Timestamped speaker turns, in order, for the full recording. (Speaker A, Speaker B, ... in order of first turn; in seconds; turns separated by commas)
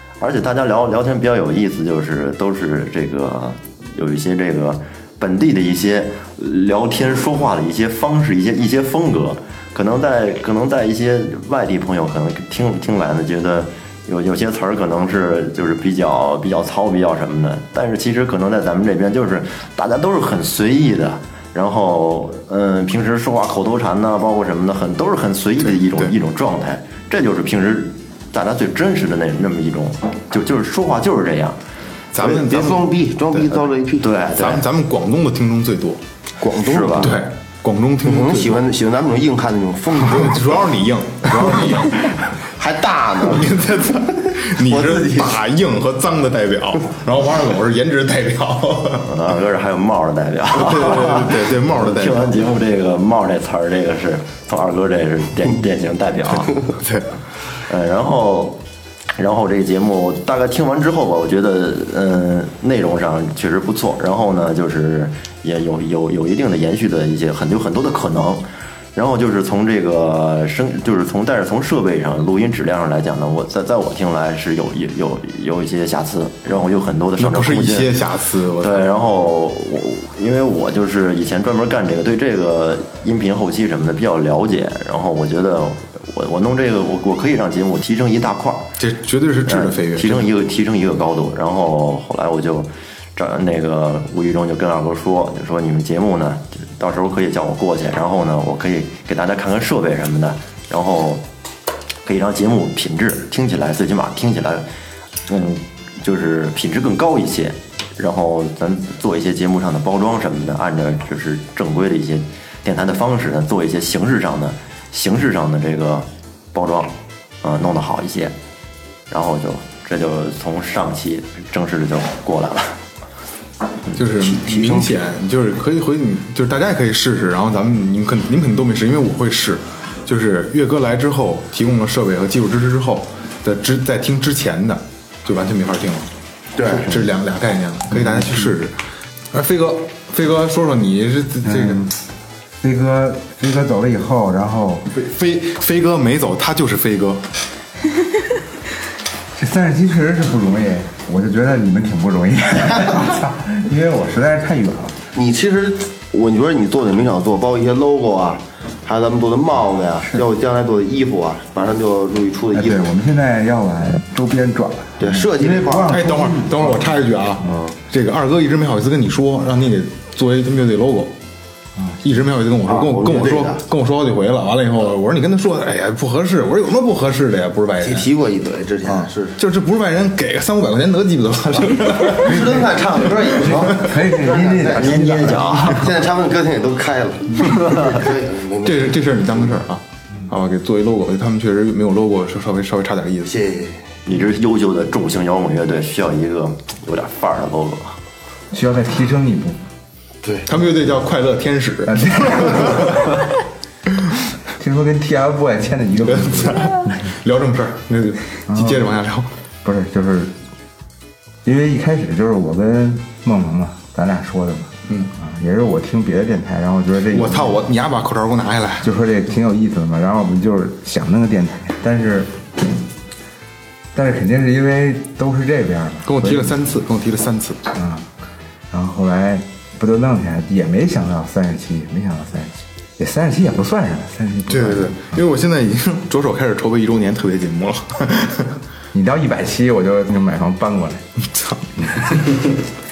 Speaker A: 0.2-31.6, Speaker B: 25.6-26.1, Speaker B: 32.1-33.6, Speaker C: 32.2-34.1, Speaker A: 34.0-34.6, Speaker B: 34.3-36.0, Speaker C: 36.4-37.2, Speaker A: 36.6-37.1, Speaker B: 37.0-38.6, Speaker C: 38.0-40.6, Speaker B: 40.0-42.2, Speaker C: 41.3-43.6, Speaker B: 43.2-49.1, Speaker C: 44.6-45.4, Speaker A: 49.1-56.6, Speaker B: 50.5-52.4, Speaker B: 56.7-57.2, Speaker A: 57.7-58.6, Speaker A: 59.2-77.9, Speaker B: 77.2-78.9, Speaker A: 78.6-88.7, Speaker B: 88.8-90.3, Speaker A: 89.5-101.2, Speaker A: 102.0-104.7, Speaker A: 105.3-118.3, Speaker A: 119.1-122.8, Speaker B: 123.9-136.1, Speaker C: 124.2-125.0, Speaker C: 136.6-137.0, Speaker B: 136.7-138.8, Speaker B: 139.3-141.9, Speaker D: 141.4-141.9, Speaker D: 142.6-144.9, Speaker B: 144.9-147.2, Speaker D: 149.4-155.0, Speaker C: 155.1-162.9, Speaker D: 162.5-167.0, Speaker C: 165.0-166.0, Speaker B: 165.9-171.2, Speaker C: 167.5-167.8, Speaker B: 172.0-178.1, Speaker C: 172.7-173.6, Speaker C: 177.8-179.4, Speaker B: 178.8-184.0, Speaker C: 182.1-189.5, Speaker D: 183.7-185.8, Speaker A: 184.7-185.8, Speaker B: 188.6-193.3, Speaker C: 193.3-193.8, Speaker A: 194.1-198.0, Speaker D: 198.5-199.6, Speaker C: 200.2-200.5, Speaker B: 200.5-203.2, Speaker D: 201.9-203.0, Speaker D: 204.5-206.9, Speaker B: 206.1-209.3, Speaker D: 208.5-208.9, Speaker D: 209.6-210.3, Speaker D: 211.4-217.7, Speaker B: 214.9-215.1, Speaker B: 217.1-218.9, Speaker D: 218.8-222.4, Speaker D: 223.9-226.6, Speaker B: 226.1-227.7, Speaker D: 227.7-228.1, Speaker D: 228.7-235.2, Speaker B: 234.5-238.6, Speaker D: 238.9-241.0, Speaker B: 241.3-242.2, Speaker D: 241.8-242.2